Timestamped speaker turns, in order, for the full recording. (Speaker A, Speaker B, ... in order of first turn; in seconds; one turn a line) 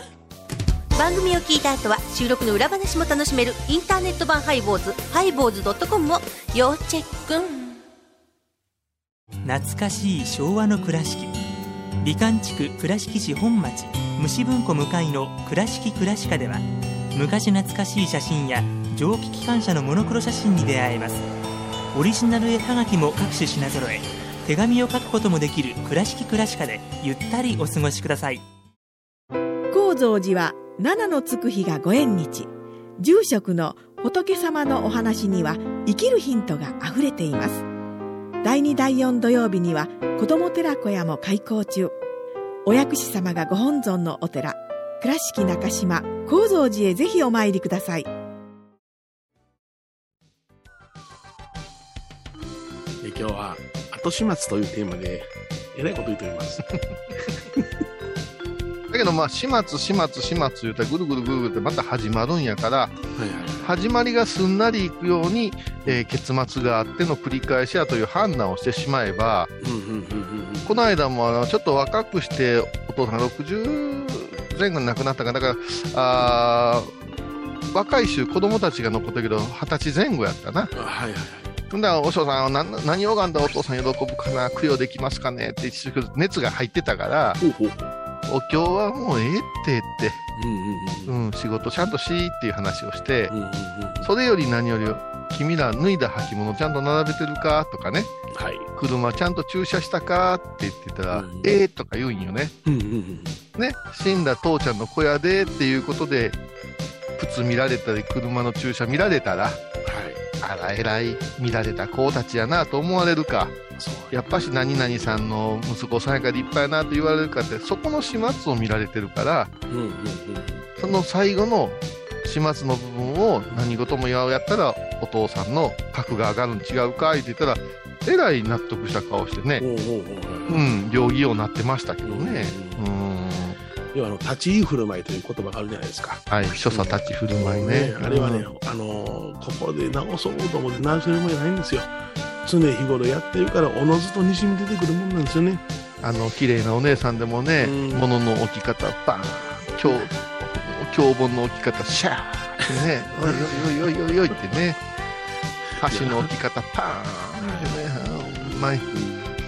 Speaker A: 1.0-7.8
Speaker B: 9.4-11.3
Speaker B: 12.0-16.6
Speaker B: 17.1-21.3
Speaker B: 21.9-28.4
Speaker C: 29.7-37.6
Speaker C: 38.4-42.0
Speaker C: 42.6-48.1
Speaker D: 53.0-56.7
Speaker D: 57.2-57.7
Speaker E: 58.9-63.0
Speaker D: 63.1-63.8
Speaker E: 63.6-69.5
Speaker D: 69.6-70.8
Speaker E: 70.6-76.9
Speaker E: 77.7-80.7
Speaker D: 80.7-81.6
Speaker E: 81.7-87.4
Speaker D: 87.4-87.9
Speaker E: 88.3-90.2
Speaker D: 90.4-91.1
Speaker E: 91.1-93.3
Speaker D: 93.3-94.1
Speaker E: 94.0-98.1
Speaker D: 98.3-98.7
Speaker E: 98.8-102.5
Speaker D: 101.1-101.5
Speaker D: 102.6-103.4
Speaker E: 103.5-106.4
Speaker E: 107.2-109.6
Speaker D: 109.8-110.2
Speaker E: 110.4-113.5
Speaker D: 113.8-114.4
Speaker E: 114.1-119.5
Speaker D: 119.7-120.7
Speaker E: 120.8-129.6
Speaker D: 129.6-130.7
Speaker E: 130.5-133.6
Speaker D: 132.0-132.8
Speaker D: 133.9-141.9
Speaker E: 136.3-138.5
Speaker D: 142.4-145.6
Speaker E: 146.0-154.8
Speaker D: 147.6-148.1
Speaker D: 149.2-150.0
Speaker D: 152.6-153.8
Speaker E: 155.8-158.8
Speaker D: 155.8-156.3
Speaker D: 157.4-157.8
Speaker D: 158.9-159.3